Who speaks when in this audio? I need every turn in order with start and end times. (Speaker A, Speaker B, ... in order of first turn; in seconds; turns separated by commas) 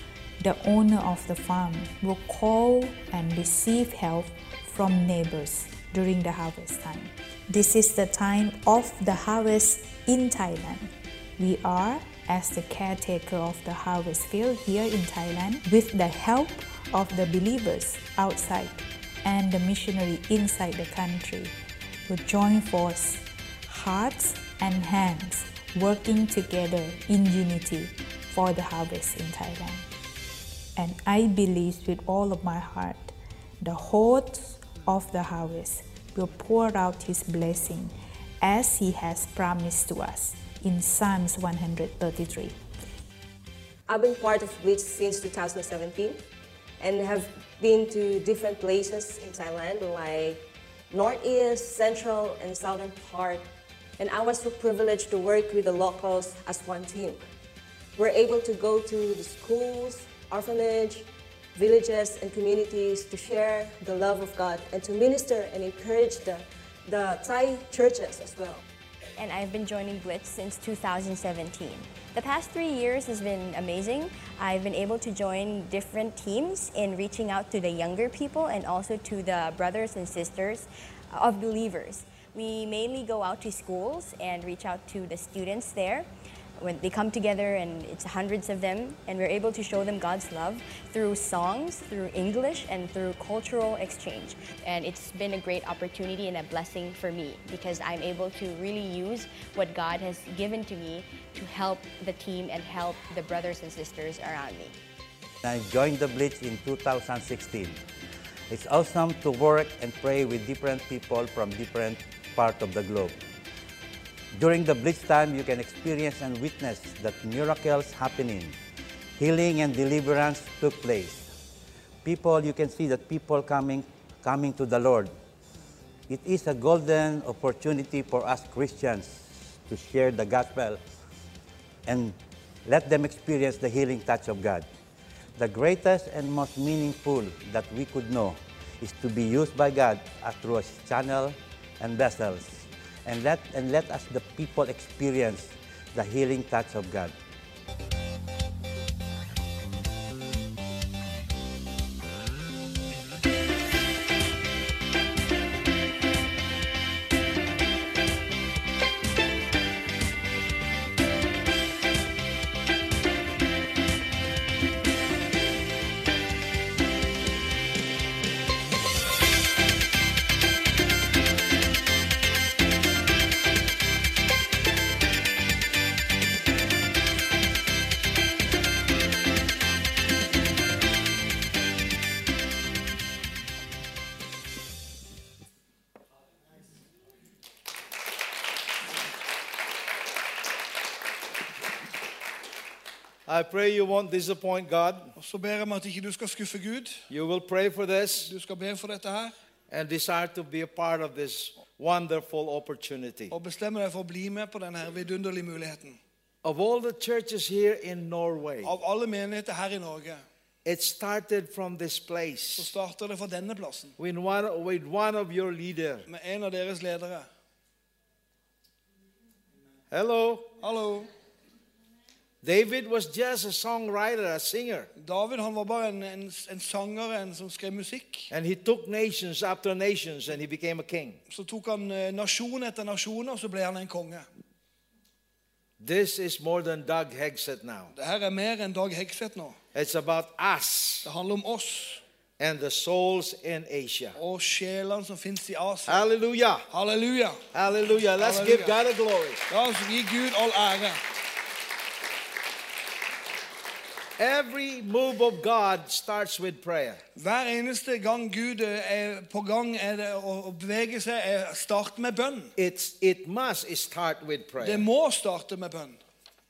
Speaker A: 0.4-21.5, Speaker A: 22.1-29.9, Speaker A: 30.8-42.5, Speaker B: 43.9-46.2, Speaker B: 46.8-50.4, Speaker B: 50.9-53.4, Speaker B: 54.0-57.2, Speaker B: 58.0-68.6, Speaker C: 69.2-86.1, Speaker C: 86.6-104.8, Speaker D: 105.4-107.8, Speaker D: 108.5-113.1, Speaker D: 114.3-118.5, Speaker D: 119.2-121.3, Speaker D: 122.0-125.1, Speaker D: 126.1-130.8, Speaker D: 131.8-134.7, Speaker D: 135.4-147.1, Speaker E: 193.2-195.1, Speaker F: 195.2-197.0, Speaker E: 197.1-198.3, Speaker F: 198.2-199.3, Speaker E: 199.7-203.3, Speaker F: 203.3-206.0, Speaker E: 206.4-208.7, Speaker F: 208.6-210.2, Speaker E: 210.6-212.7, Speaker F: 212.6-213.9, Speaker E: 214.0-216.1, Speaker F: 216.1-217.3, Speaker E: 219.9-220.5, Speaker F: 220.6-221.1, Speaker E: 222.4-224.9, Speaker F: 225.0-228.3, Speaker E: 228.3-231.2, Speaker F: 231.3-234.2, Speaker E: 235.8-237.9, Speaker F: 237.9-239.6, Speaker E: 239.7-241.1, Speaker F: 241.0-242.0, Speaker E: 242.4-244.2, Speaker F: 244.2-246.1, Speaker E: 245.9-246.7, Speaker F: 246.7-247.4, Speaker E: 247.5-249.4, Speaker F: 248.2-248.8, Speaker F: 249.5-251.0, Speaker E: 254.2-257.0, Speaker F: 257.1-262.5, Speaker E: 262.6-264.8, Speaker F: 264.6-266.0